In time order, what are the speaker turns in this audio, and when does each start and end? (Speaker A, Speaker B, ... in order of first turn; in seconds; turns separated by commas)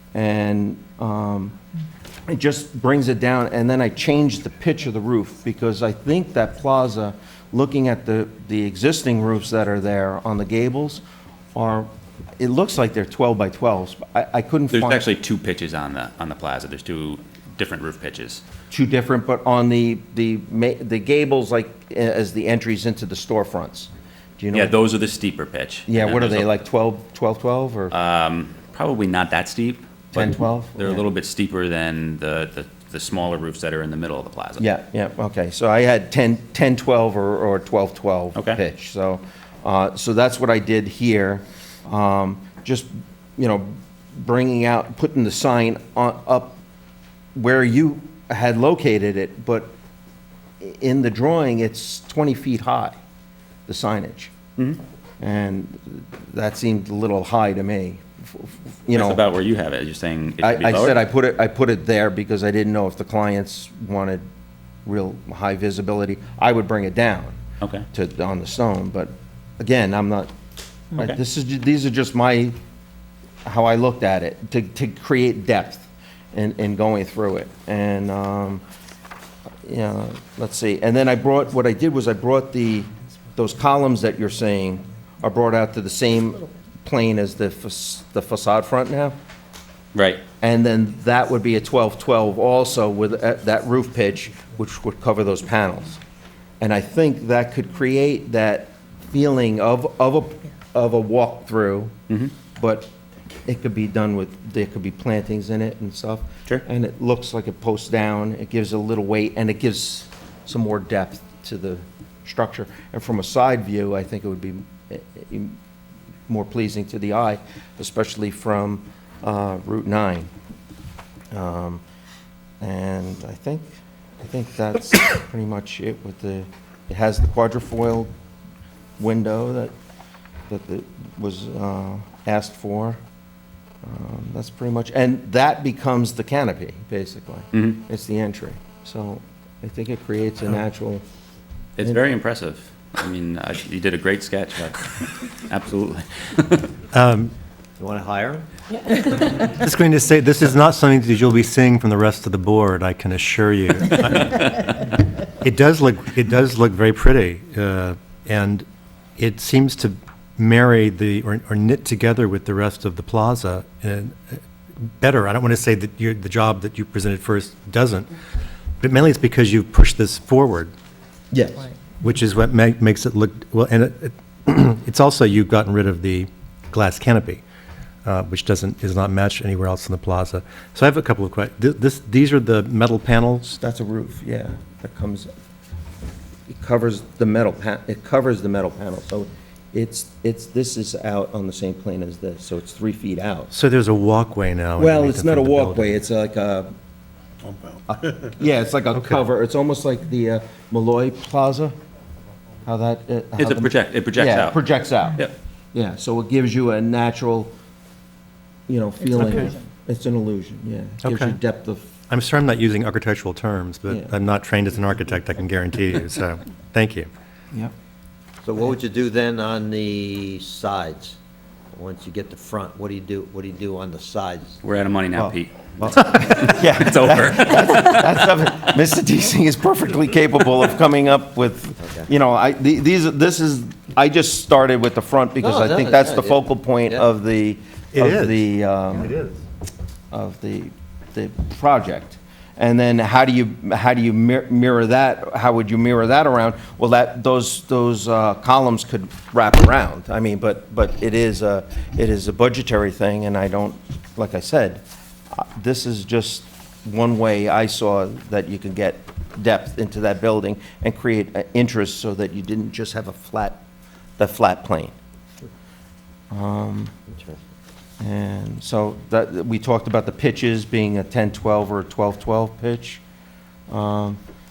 Speaker A: 0.1-1.6, Speaker A: 2.3-11.0, Speaker A: 11.6-15.1, Speaker B: 14.7-18.4, Speaker A: 18.7-24.8, Speaker B: 24.5-26.6, Speaker A: 25.9-27.9, Speaker B: 27.9-34.6, Speaker A: 30.1-31.1, Speaker A: 34.6-46.6, Speaker A: 47.4-49.7, Speaker A: 50.6-53.0, Speaker A: 53.7-54.3, Speaker A: 55.2-59.2, Speaker B: 58.9-61.0, Speaker A: 60.4-64.2, Speaker A: 64.8-67.4, Speaker B: 67.6-67.9, Speaker A: 67.9-70.3, Speaker A: 70.9-72.6, Speaker A: 73.5-78.6, Speaker A: 79.6-89.2, Speaker B: 89.9-90.2, Speaker A: 90.4-96.0, Speaker A: 96.6-101.9, Speaker A: 102.6-102.9, Speaker A: 103.5-115.6, Speaker A: 116.3-120.3, Speaker A: 121.3-121.8, Speaker A: 122.6-128.1, Speaker A: 129.0-129.7, Speaker A: 130.5-133.0, Speaker A: 133.8-141.0, Speaker B: 141.8-146.7, Speaker C: 146.9-147.3, Speaker D: 147.8-148.5, Speaker C: 149.4-158.7, Speaker C: 159.2-168.1, Speaker C: 168.8-170.7, Speaker A: 171.3-171.7, Speaker C: 172.0-177.4, Speaker C: 178.1-183.6, Speaker A: 183.6-185.3, Speaker A: 186.5-193.5, Speaker C: 193.5-195.9, Speaker A: 194.8-196.7, Speaker A: 197.9-201.8, Speaker A: 202.7-207.5, Speaker B: 203.4-204.6, Speaker A: 208.7-211.9, Speaker C: 211.0-211.4, Speaker C: 212.1-217.1, Speaker A: 213.9-214.1, Speaker D: 218.4-221.2, Speaker D: 221.7-224.6, Speaker B: 224.6-228.0, Speaker A: 225.9-239.1, Speaker D: 231.8-232.1, Speaker D: 235.4-237.0, Speaker C: 237.9-239.4, Speaker A: 240.1-263.6, Speaker A: 264.2-264.9, Speaker A: 266.3-266.9, Speaker D: 267.1-267.4, Speaker A: 268.0-273.0, Speaker A: 273.7-274.2